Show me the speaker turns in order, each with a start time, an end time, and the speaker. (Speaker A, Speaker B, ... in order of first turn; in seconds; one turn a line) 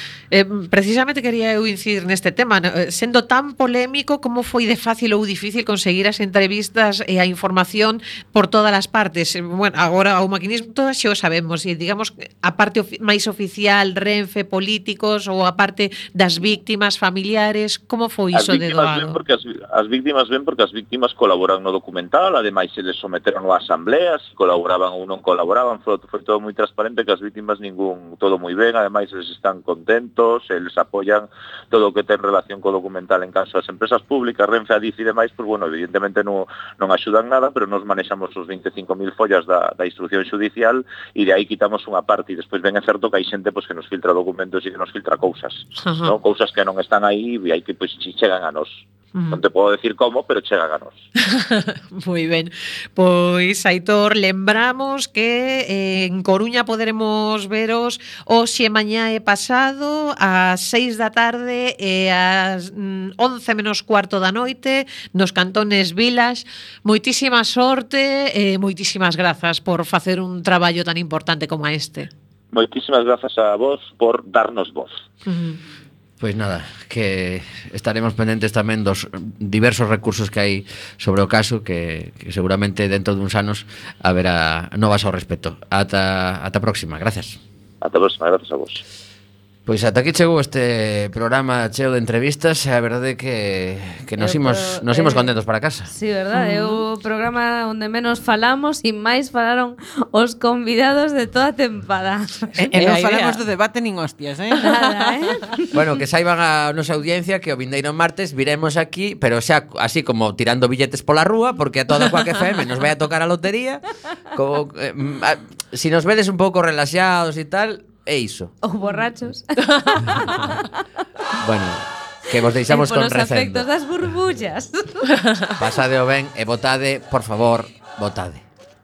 Speaker A: 0.3-19.1
Speaker B: 18.3-51.1
Speaker A: 45.8-46.1
Speaker A: 51.3-72.1
Speaker B: 72.5-74.9
Speaker C: 76.2-87.4
Speaker B: 87.8-88.8
Speaker C: 89.7-95.9
Speaker D: 94.2-95.3
Speaker D: 95.9-102.6
Speaker A: 96.3-96.8
Speaker A: 102.6-103.4
Speaker E: 102.7-104.7
Speaker D: 104.6-105.5
Speaker C: 105.7-113.8
Speaker C: 114.3-118.6
Speaker D: 118.6-120.7
Speaker C: 121.4-123.7
Speaker D: 122.7-125.1
Speaker C: 125.6-128.4